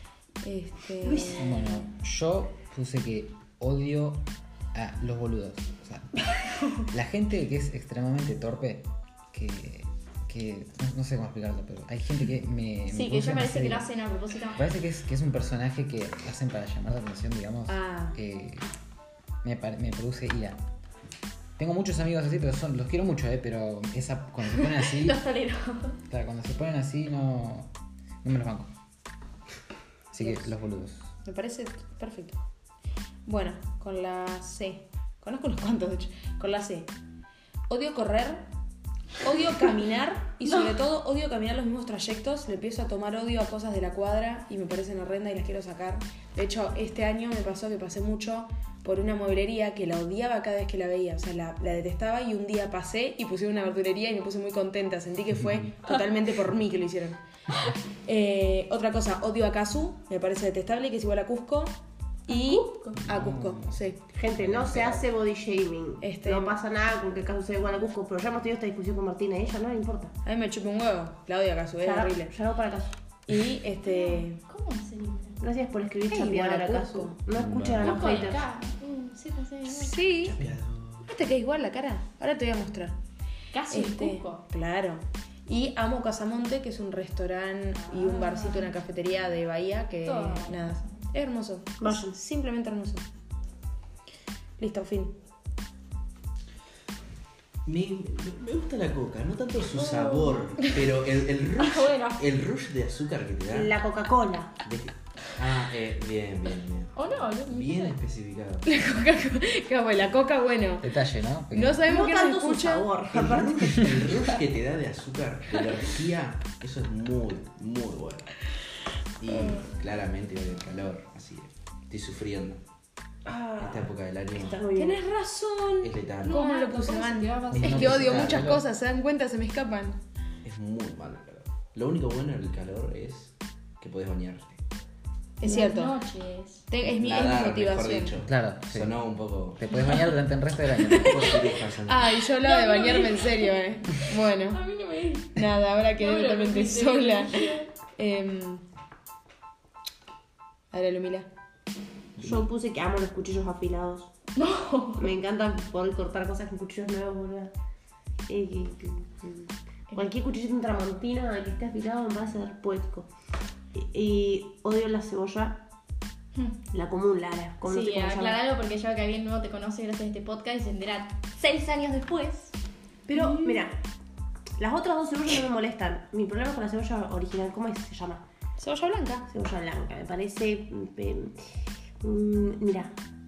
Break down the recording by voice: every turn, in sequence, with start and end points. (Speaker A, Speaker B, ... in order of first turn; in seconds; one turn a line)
Speaker A: 0.4-1.8
Speaker B: 1.1-1.5
Speaker C: 1.4-6.2
Speaker D: 6.4-6.8
Speaker C: 6.8-13.9
Speaker D: 12.9-14.7
Speaker C: 14.6-18.6
Speaker A: 17.7-18.2
Speaker C: 19.4-20.6
Speaker C: 21.6-25.2
Speaker D: 24.5-26.0
Speaker C: 26.1-27.7
Speaker C: 28.2-28.7
Speaker C: 30.1-31.1
Speaker A: 30.1-30.5
Speaker A: 31.2-32.4
Speaker A: 33.3-36.9
Speaker A: 37.7-38.5
Speaker A: 39.2-57.2
Speaker A: 58.0-61.7
Speaker A: 62.3-64.0
Speaker B: 62.3-62.6
Speaker C: 63.1-63.6
Speaker B: 64.1-70.2
Speaker E: 64.5-65.0
Speaker A: 66.0-66.6
Speaker A: 70.2-72.3
Speaker B: 71.8-73.0
Speaker A: 73.3-74.4
Speaker D: 73.8-75.4
Speaker B: 75.4-78.5
Speaker A: 76.1-77.2
Speaker E: 77.3-78.4
Speaker D: 77.8-80.1
Speaker A: 79.7-80.5
Speaker E: 80.2-81.1
Speaker A: 81.1-83.0
Speaker D: 83.5-84.5
Speaker A: 83.7-93.0
Speaker D: 87.8-88.7
Speaker D: 90.0-91.1
Speaker B: 91.8-92.2
Speaker A: 94.6-95.2
Speaker E: 97.7-103.8
Speaker D: 99.8-100.8
Speaker D: 101.6-102.2
Speaker B: 103.5-104.6
Speaker E: 104.6-108.7
Speaker D: 107.0-108.0
Speaker A: 108.7-110.9
Speaker C: 110.8-111.8
Speaker A: 111.5-112.9
Speaker B: 111.9-114.3
Speaker E: 113.1-118.3
Speaker E: 119.2-122.6
Speaker B: 123.2-125.0
Speaker E: 123.6-124.6
Speaker A: 124.8-130.0
Speaker E: 125.8-126.4
Speaker D: 126.2-128.4
Speaker C: 127.5-128.6
Speaker E: 127.7-128.4
Speaker E: 130.4-134.6
Speaker A: 135.4-135.9
Speaker D: 135.4-136.7
Speaker A: 136.7-138.1
Speaker E: 136.8-139.6
Speaker C: 138.2-139.0
Speaker C: 139.5-141.5
Speaker E: 140.9-142.2
Speaker A: 141.1-144.6
Speaker D: 142.4-143.5
Speaker D: 144.5-145.4
Speaker A: 145.3-148.6
Speaker D: 146.0-147.7
Speaker A: 150.7-151.3
Speaker B: 152.2-154.1
Speaker D: 154.4-155.1
Speaker B: 155.0-157.5
Speaker B: 158.3-163.1
Speaker B: 163.7-165.6
Speaker B: 166.7-168.4
Speaker D: 167.7-172.5
Speaker B: 173.1-173.8
Speaker B: 174.6-178.2
Speaker A: 178.6-179.3
Speaker B: 179.3-181.4
Speaker B: 182.0-182.9